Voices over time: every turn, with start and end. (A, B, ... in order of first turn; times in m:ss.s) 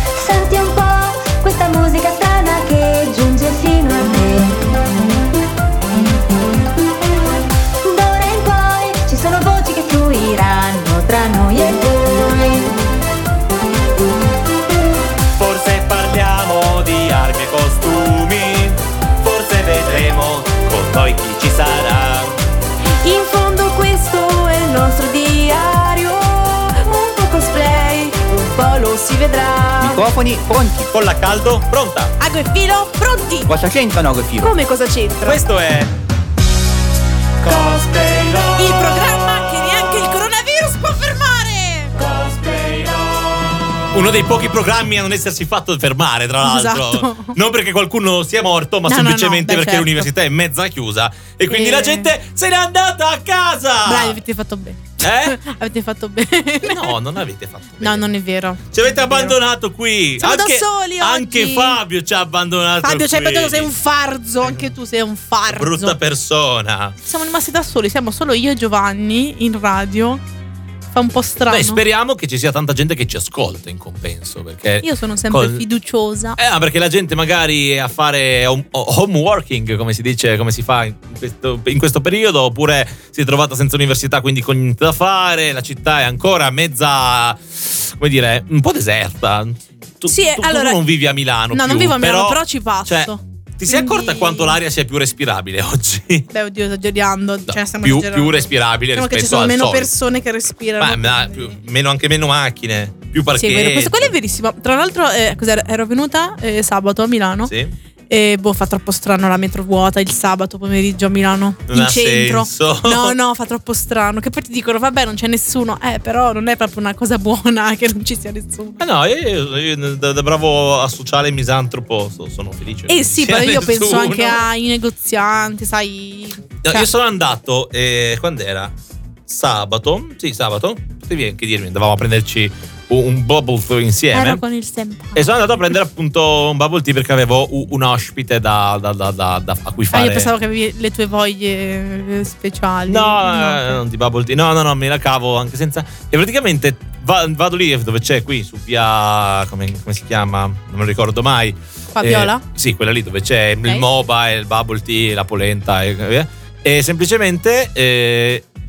0:00.1-0:04.6 A
0:07.8-0:12.7 A
0:15.3-0:22.4 B
0:23.0-0:30.1 C
0:29.8-0:30.9 D
0:30.9-0:32.1 B
0:32.2-0:33.5 C
0:33.5-0:34.5 D
0:34.4-0:35.4 C
0:35.2-0:35.9 B
0:37.4-0:39.9 B
0:38.6-0:42.2 C
0:42.1-0:43.3 B
0:43.9-0:54.2 B
0:46.4-0:47.4 C
0:48.9-0:50.1 C
0:51.5-0:52.1 C
0:53.8-0:57.0 C
0:55.0-0:55.4 B
0:56.6-0:58.1 B
0:57.8-0:59.4 C
0:58.7-1:03.7 B
1:00.2-1:01.8 C
1:02.8-1:06.0 C
1:04.4-1:04.7 B
1:05.5-1:07.0 B
1:07.0-1:10.2 C
1:10.9-1:11.8 C
1:11.5-1:15.6 B
1:14.8-1:16.4 C
1:16.4-1:36.3 B
1:30.1-1:30.8 C
1:31.5-1:34.6 C
1:36.3-1:41.6 C
1:37.5-1:39.9 B
1:40.8-1:44.1 B
1:43.4-1:47.5 C
1:47.5-1:47.8 B
1:48.1-1:58.8 C
1:51.7-1:53.2 B
1:58.8-2:04.4 B
2:02.9-2:06.9 C
2:06.6-2:08.7 B
2:09.3-2:14.4 B
2:14.1-2:15.4 C
2:15.2-2:20.3 B
2:19.9-2:23.8 C
2:22.9-2:38.5 B
2:32.0-2:32.4 C